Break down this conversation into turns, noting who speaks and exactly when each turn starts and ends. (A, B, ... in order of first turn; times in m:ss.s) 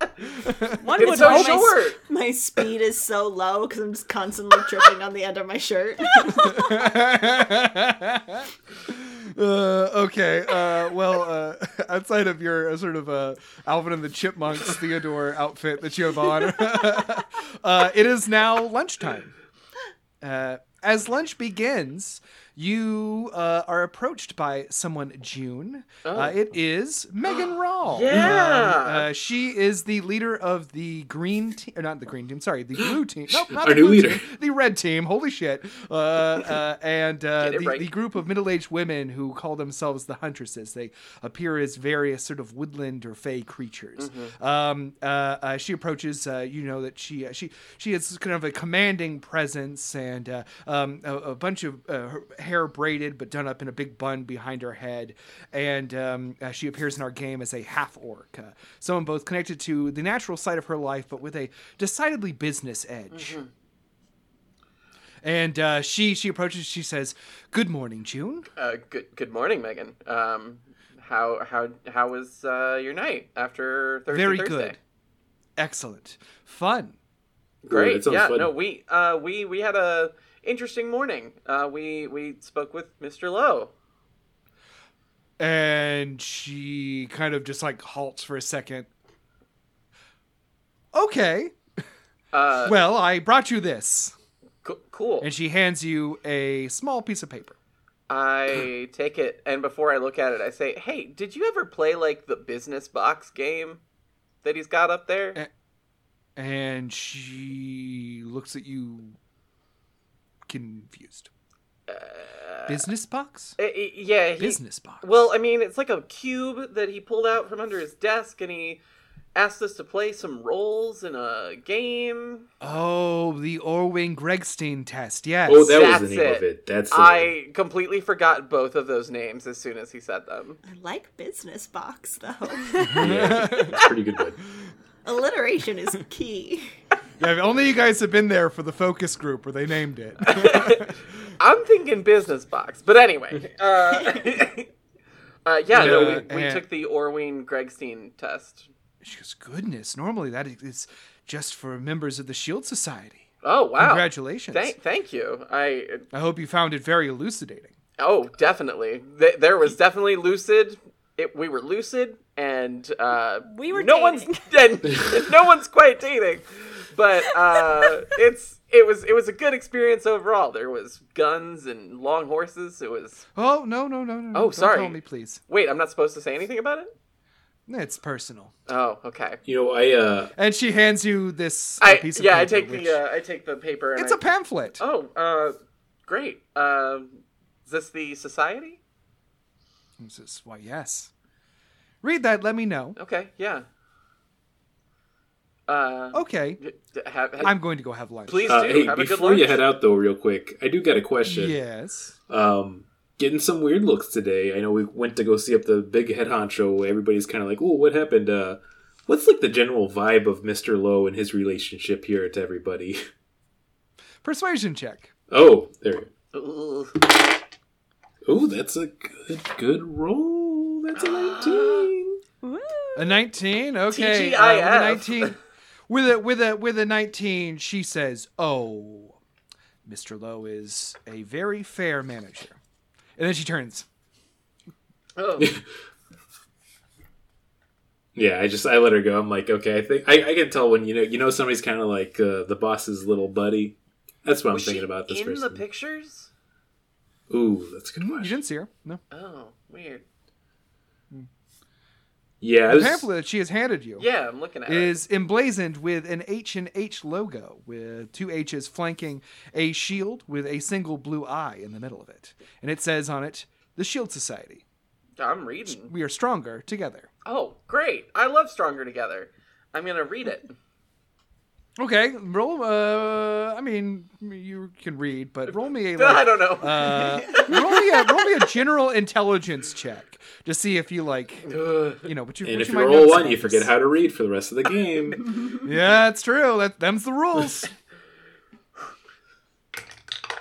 0:00.3-0:01.6 A
0:00.8-0:01.8 B
0:01.0-0:02.0 C
0:01.1-0:06.8 D
0:06.3-0:19.3 A
0:20.2-1:03.4 A
0:26.0-0:26.4 C
0:27.9-0:29.1 C
0:33.4-0:34.2 E
0:37.4-0:37.9 C
0:44.0-0:44.4 C
1:03.1-1:03.5 C
1:05.2-1:08.5 A
1:08.6-1:14.8 C
1:14.1-1:14.8 A
1:15.6-1:17.0 A
1:17.6-1:23.7 C
1:17.7-1:18.5 E
1:25.4-1:28.9 A
1:30.9-1:31.6 A
1:32.3-1:32.8 C
1:32.6-1:34.1 A
1:34.6-1:35.3 C
1:35.2-1:37.6 A
1:38.1-1:43.8 C
1:44.4-1:45.4 C
1:46.4-1:49.2 A
1:50.5-1:51.3 A
1:51.9-1:52.8 C
1:52.7-1:53.6 A
1:53.6-1:58.8 C
1:54.4-1:55.2 A
1:59.4-2:02.5 C
2:02.6-2:05.9 A
2:05.5-2:07.3 E
2:05.7-2:10.6 C
2:10.6-2:13.0 D
2:12.9-2:13.8 A
2:12.9-2:14.4 E
2:15.0-2:16.7 D
2:17.2-2:20.9 A
2:20.2-2:24.7 C
2:25.5-2:28.7 C
2:25.7-2:26.6 A
2:29.0-2:33.3 A
2:33.4-2:36.0 C
2:33.8-2:34.8 A
2:36.1-2:37.7 A
2:38.0-2:53.3 C
2:43.4-2:44.4 B
2:47.5-2:47.9 B
2:53.4-2:55.4 A
2:54.3-2:56.9 C
2:57.7-2:58.5 A
2:58.7-2:59.4 C
2:59.4-3:00.3 E
3:00.4-3:03.0 A
3:01.8-3:04.2 C
3:04.0-3:04.8 A
3:04.8-3:08.8 C
3:10.0-3:11.1 A
3:12.0-3:13.0 A
3:13.0-3:13.6 C
3:15.7-3:17.6 C
3:16.1-3:16.6 A
3:17.4-3:18.5 A
3:18.3-3:19.6 C
3:18.5-3:21.6 E
3:21.2-3:22.2 A
3:22.3-3:33.0 E
3:34.2-3:35.1 A
3:35.3-3:36.1 E
3:36.3-3:37.0 C
3:38.2-3:42.2 E
3:41.0-3:41.9 C
3:42.4-3:43.2 B
3:43.0-3:45.4 A
3:43.9-3:45.4 C
3:45.9-3:49.2 A
3:49.8-3:52.6 A
3:53.2-3:53.9 A
3:55.2-3:55.5 C
3:58.2-4:05.6 E
4:04.5-4:06.3 C
4:07.3-4:08.4 E
4:08.0-4:09.0 A
4:09.1-4:10.0 C
4:12.4-4:13.1 E
4:12.7-4:14.1 A
4:14.0-4:15.0 C
4:14.6-4:24.6 A
4:25.2-4:25.9 C
4:25.7-4:27.1 A
4:27.2-4:30.5 C
4:31.8-4:41.5 A
4:35.9-4:37.8 C
4:41.5-4:42.1 C
4:42.0-4:43.7 A
4:42.4-4:45.4 E
4:45.6-4:47.7 A